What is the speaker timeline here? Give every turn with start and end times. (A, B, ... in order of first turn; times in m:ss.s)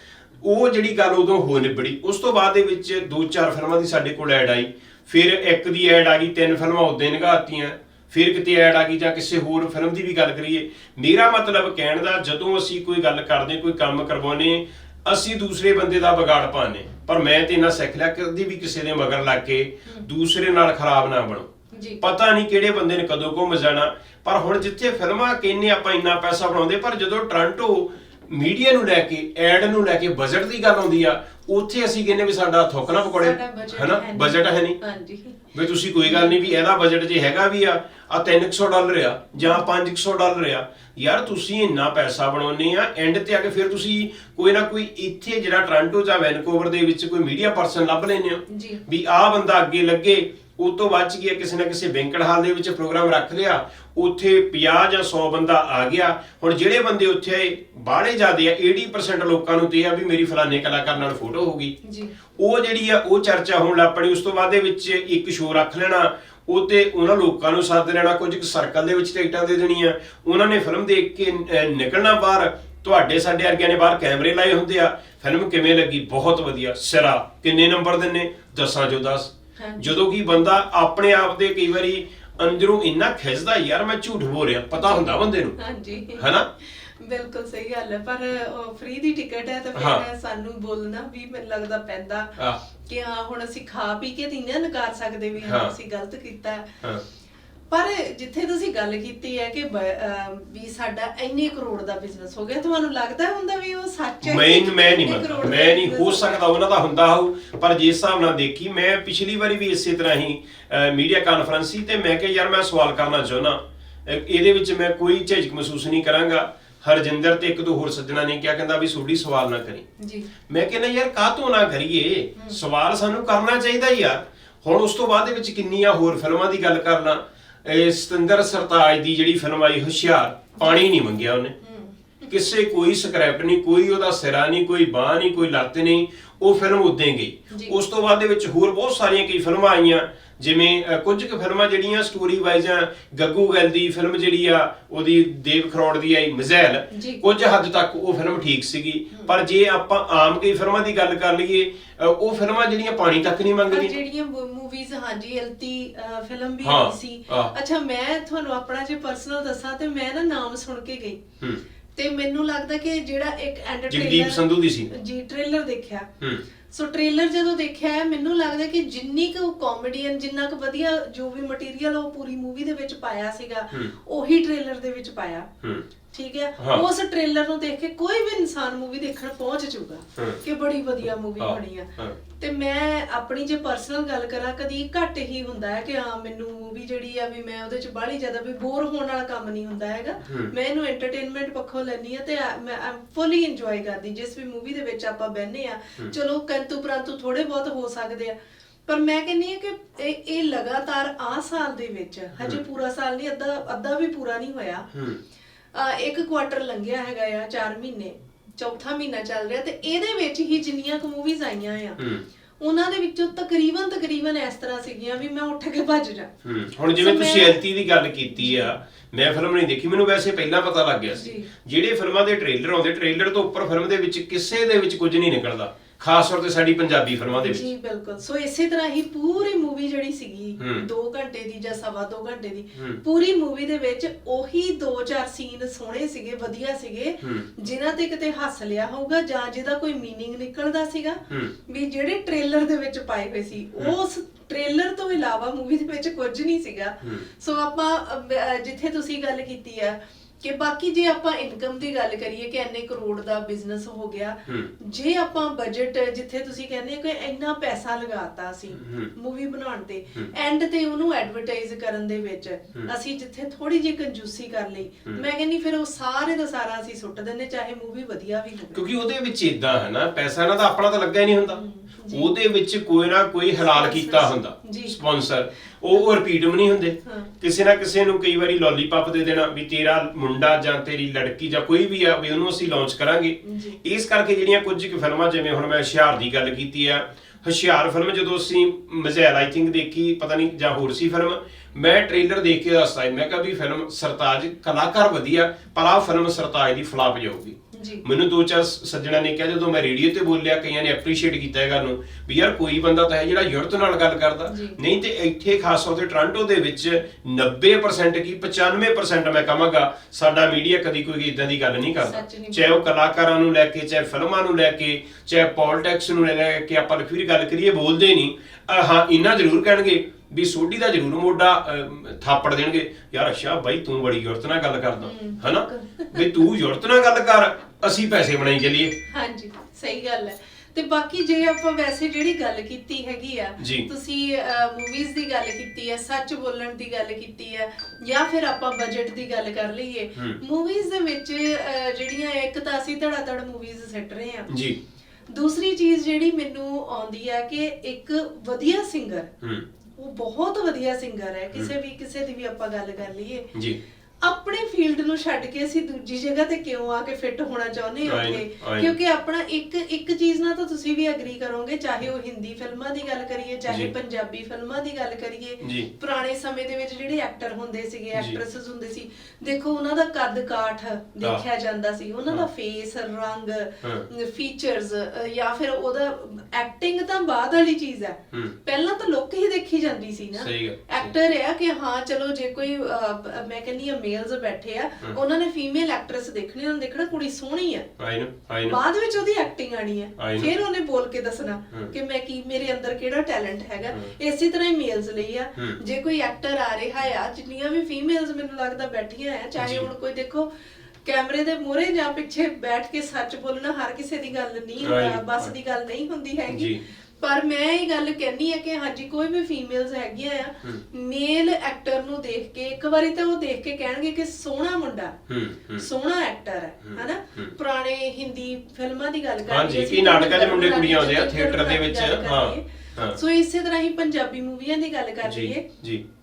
0:00.4-0:21.5 A
0:21.7-0:22.0 B
0:22.0-0:34.8 A
0:32.9-0:35.4 B
0:35.5-1:01.8 A
0:36.0-0:36.4 B
0:48.5-0:48.8 B
1:01.8-1:02.1 B
1:02.3-1:25.6 A
1:19.6-1:19.9 B
1:24.8-1:36.8 B
1:26.2-1:26.5 A
1:29.7-1:30.0 A
1:35.4-1:35.7 A
1:37.7-1:46.4 B
1:44.2-1:59.8 A
2:00.0-2:00.3 B
2:00.5-2:11.5 A
2:02.4-2:02.6 B
2:10.6-2:10.9 B
2:11.6-2:12.4 B
2:12.3-2:33.9 A
2:17.5-2:17.8 B
2:26.9-2:27.2 B
2:33.7-2:41.2 B
2:36.6-2:37.5 A
2:42.0-2:46.1 B
2:43.9-2:44.9 A
2:46.7-2:55.5 B
2:56.1-3:18.4 B
2:56.6-2:56.8 A
3:01.4-3:02.2 A
3:10.2-3:10.5 A
3:18.9-3:24.9 B
3:24.9-3:25.2 A
3:25.7-3:32.0 B
3:32.0-3:32.2 A
3:32.6-3:36.3 B
3:36.4-3:47.7 A
3:36.9-3:37.6 B
3:38.3-3:38.7 B
3:41.1-3:41.5 B
3:47.3-4:28.8 B
3:50.6-3:50.8 A
4:18.8-4:19.1 A
4:28.7-5:28.9 A
4:31.5-4:32.3 B
4:33.6-4:35.0 B
4:37.0-4:37.3 B
4:43.4-4:43.8 B
4:57.7-4:58.0 B
5:04.4-5:04.8 B
5:12.0-5:12.8 B
5:25.0-5:26.4 B
5:29.1-5:44.5 B
5:33.6-5:33.9 A
5:44.5-5:44.8 A
5:45.3-5:49.3 B
5:49.4-5:49.6 A
5:50.0-5:53.5 B
5:54.2-6:27.9 B
5:58.1-5:58.9 A
6:05.6-6:05.9 A
6:20.4-6:21.1 A
6:28.0-6:28.8 A
6:28.6-6:40.5 B
6:30.2-6:30.5 A
6:39.6-6:39.9 A
6:41.0-6:55.2 B
6:44.8-6:45.5 A
6:46.5-6:46.8 A
6:55.3-6:55.8 A
6:55.8-7:05.7 B
6:56.9-6:57.5 A
6:59.5-7:03.2 A
7:05.2-7:06.0 A